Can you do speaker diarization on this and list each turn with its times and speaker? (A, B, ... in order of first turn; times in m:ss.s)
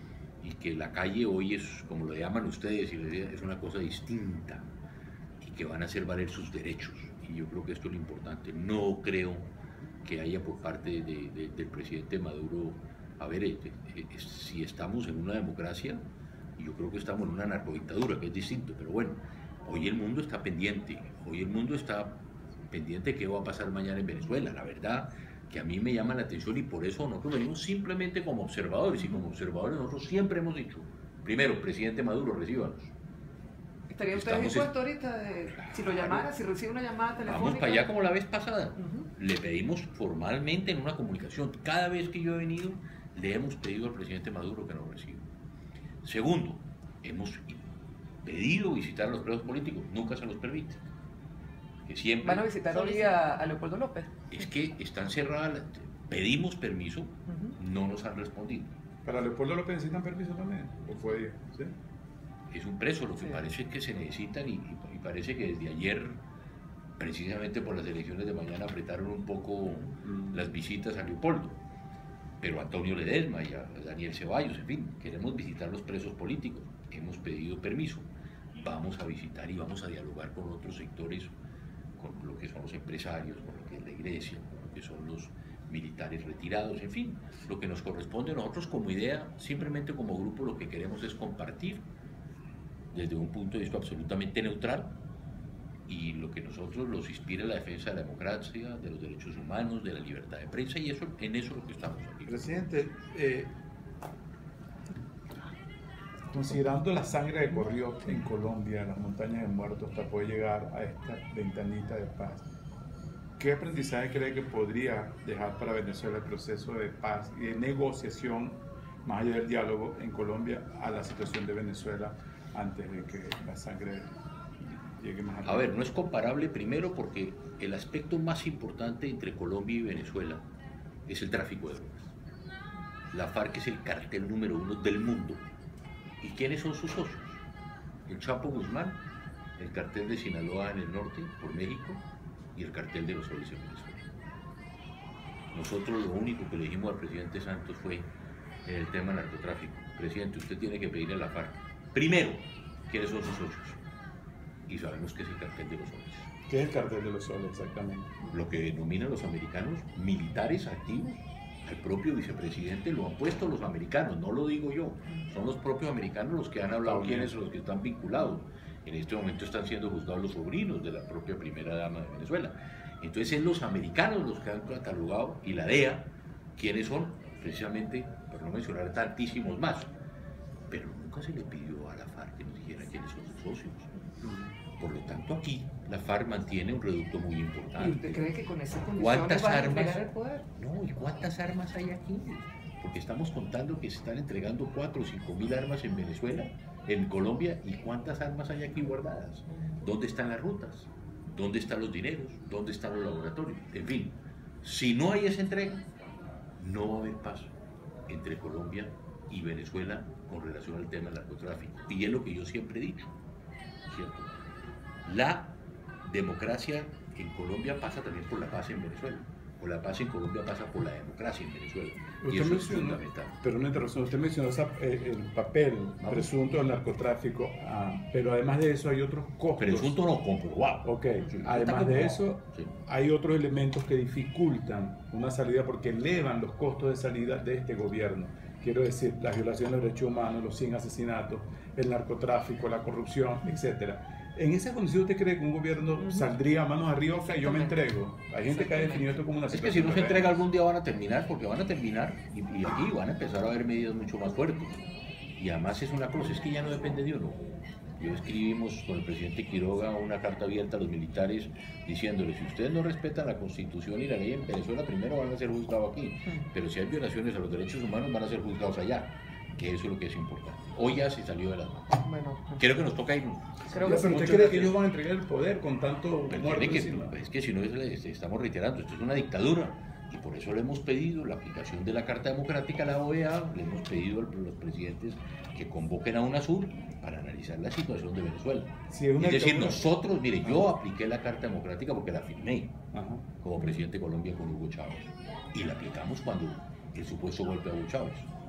0:00.4-0:04.7 A
0:05.4-0:09.5 A
0:10.0-0:16.0 A
0:16.6-0:32.9 A
0:33.9-0:37.9 B
0:34.1-0:34.7 A
0:35.6-0:36.3 A
0:37.3-0:45.3 A
0:38.8-0:39.1 B
0:46.0-0:47.6 A
0:48.2-0:50.8 A
0:51.9-0:53.2 A
0:52.2-0:54.2 B
0:54.3-0:58.8 A
0:57.3-0:57.6 B
0:59.0-1:01.8 C
1:02.5-1:06.2 A
1:07.0-1:11.6 A
1:10.0-1:10.4 C
1:12.4-1:21.3 A
1:22.0-1:31.9 A
1:32.9-1:35.0 A
1:35.9-1:42.6 A
1:42.3-1:43.5 C
1:46.3-1:52.5 C
1:53.4-2:05.8 C
2:05.4-2:10.4 A
2:11.1-2:12.1 A
2:13.1-2:15.5 A
2:16.2-2:17.4 A
2:18.1-2:19.0 A
2:19.6-2:22.0 A
2:22.6-2:24.0 A
2:25.5-2:28.1 A
2:28.6-2:33.8 A
2:34.7-2:36.3 A
2:36.5-2:38.2 C
2:38.3-2:59.9 A
2:46.8-2:47.3 C
3:00.7-3:03.9 A
3:04.2-3:04.5 C
3:04.8-3:08.3 A
3:07.8-3:10.5 B
3:09.0-3:10.0 A
3:10.6-3:25.8 A
3:26.6-3:27.5 A
3:28.1-3:33.1 A
3:33.9-3:34.4 A
3:35.1-3:43.4 A
3:42.2-3:49.9 C
3:46.0-3:46.3 A
3:49.6-3:52.7 A
3:50.8-4:10.4 C
4:06.0-4:06.3 B
4:07.2-4:07.8 B
4:08.4-4:09.2 B
4:09.5-4:14.8 A
4:15.4-4:17.4 A
4:18.0-4:31.9 A
4:32.0-4:32.7 B
4:32.6-4:34.8 A
4:33.7-4:34.2 B
4:33.8-4:37.2 C
4:36.3-4:52.8 A
4:48.9-4:49.9 C
4:52.9-4:53.3 C
4:53.4-4:58.3 A